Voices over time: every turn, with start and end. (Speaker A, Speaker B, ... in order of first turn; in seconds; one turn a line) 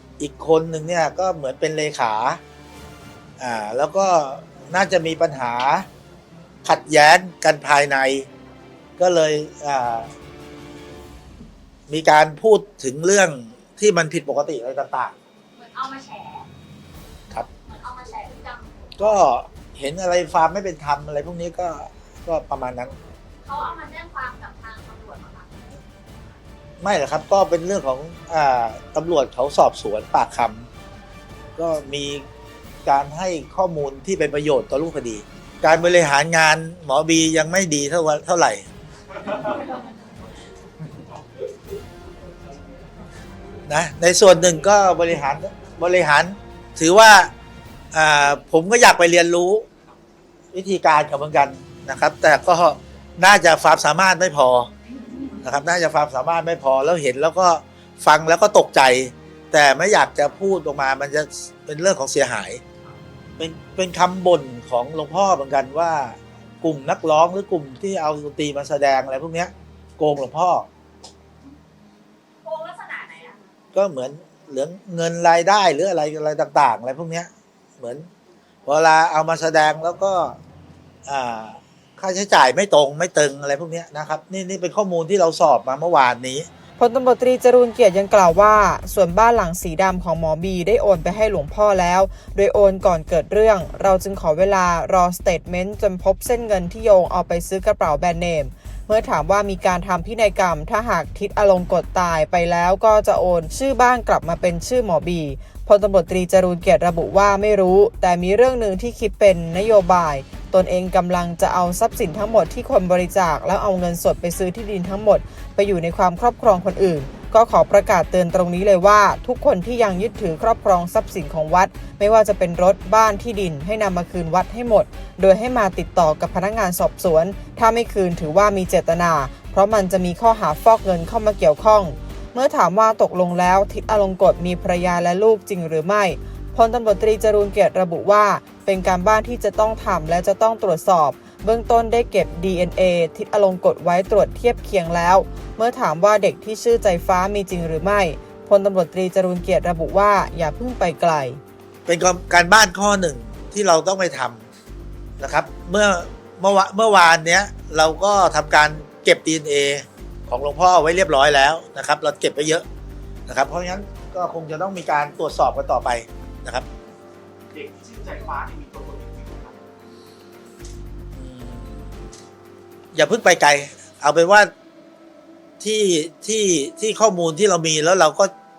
Speaker A: 0.2-2.4
Speaker A: 3.4-5.8
Speaker A: 6.6-8.3
Speaker A: 9.0-10.1
Speaker A: 11.9-15.1
Speaker B: 15.5-16.5
Speaker B: 17.5-19.2
Speaker A: 19.0-22.9
Speaker B: 23.4-25.7
Speaker A: 26.8-30.7
Speaker A: 31.6-32.2
Speaker A: 32.8-38.7
Speaker A: 43.7-47.3
Speaker A: 47.9-49.6
Speaker A: 50.5-54.7
Speaker A: 55.4-62.6
Speaker A: 63.4-70.7
Speaker B: 72.4-73.4
Speaker A: 73.7-78.1
Speaker A: 78.7-80.4
Speaker A: 81.0-86.5
Speaker C: 86.8-151.4
Speaker A: 151.8-154.4
Speaker A: 155.2-162.6
Speaker A: 163.3-166.7
Speaker D: 167.5-169.6
Speaker A: 171.2-171.8
Speaker A: 172.9-174.5
Speaker A: 175.6-178.3